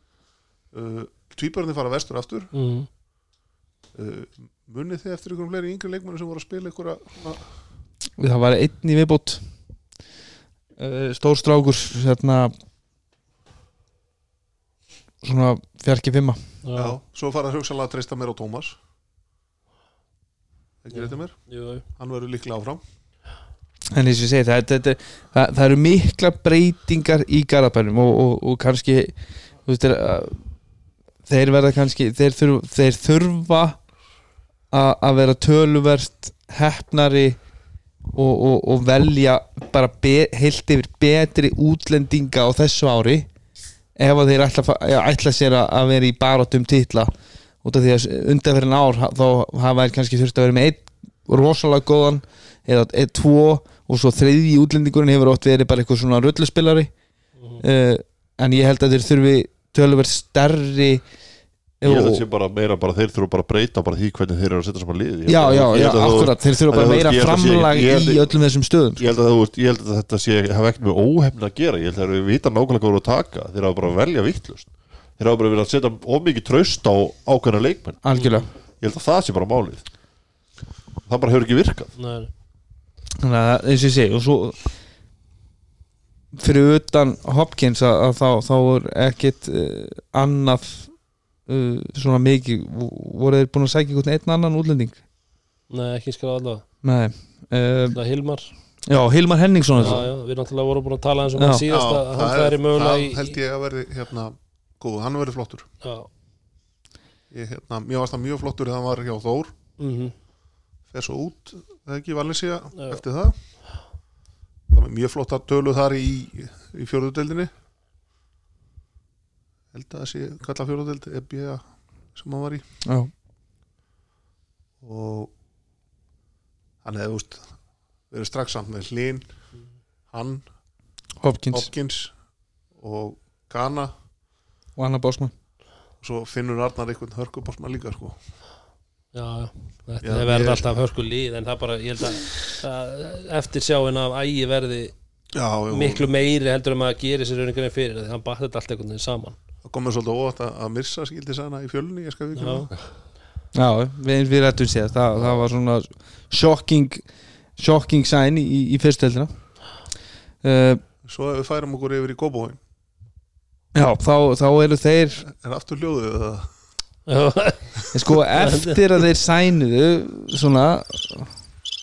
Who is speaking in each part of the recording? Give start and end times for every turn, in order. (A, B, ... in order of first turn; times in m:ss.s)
0:00.7-0:02.5 A
0:02.5-0:02.9 B
0:03.9-0:07.4 A
0:08.2-0:09.4 C
0:10.8-0:12.5 C
0:15.2-0:16.4 C
0:16.6-0:16.9 B
0:16.7-0:18.8 A
0:20.8-0:21.4 A
0:20.9-0:21.8 B
0:21.9-0:22.8 A
0:23.9-0:29.1 C
0:29.6-0:30.4 C
0:31.2-0:33.8 C
0:34.7-0:37.4 C
0:38.1-0:43.3 C
0:44.0-0:47.1 C
0:47.6-0:56.9 C
0:57.6-1:01.0 C
1:01.8-1:02.2 C
1:01.8-1:08.3 D
1:05.3-1:09.0 C
1:09.0-1:18.0 D
1:18.0-1:18.5 C
1:18.1-1:18.4 B
1:18.8-1:19.8 D
1:21.0-1:21.9 D
1:22.0-1:22.3 B
1:23.2-1:24.8 C
1:26.3-1:30.9 C
1:31.4-1:35.0 C
1:35.7-1:36.6 B
1:36.8-1:38.0 C
1:37.9-1:38.5 B
1:38.9-1:40.0 C
1:39.8-1:43.4 B
1:41.4-1:41.6 C
1:41.7-1:45.7 A
1:45.8-1:46.1 B
1:47.3-1:49.5 A
1:49.8-1:50.1 B
1:50.9-1:53.3 A
1:54.7-1:57.5 A
1:59.7-2:01.6 A
2:02.1-2:02.6 A
2:02.8-2:03.1 C
2:04.8-2:05.3 A
2:06.8-2:07.5 A
2:08.1-2:09.2 A
2:10.1-2:10.5 A
2:11.2-2:11.7 C
2:11.5-2:12.1 A
2:12.8-2:13.9 A
2:14.8-2:15.3 C
2:16.0-2:18.2 A
2:19.1-2:24.9 B
2:20.0-2:20.7 A
2:25.3-2:26.1 A
2:25.7-2:29.4 B
2:29.6-2:32.7 A
2:32.4-2:32.7 B
2:33.5-2:37.0 C
2:37.6-2:39.3 C
2:40.4-2:40.8 C
2:41.1-2:42.6 A
2:43.7-2:45.2 C
2:45.2-2:46.5 A
2:47.1-2:48.8 B
2:47.9-2:51.3 C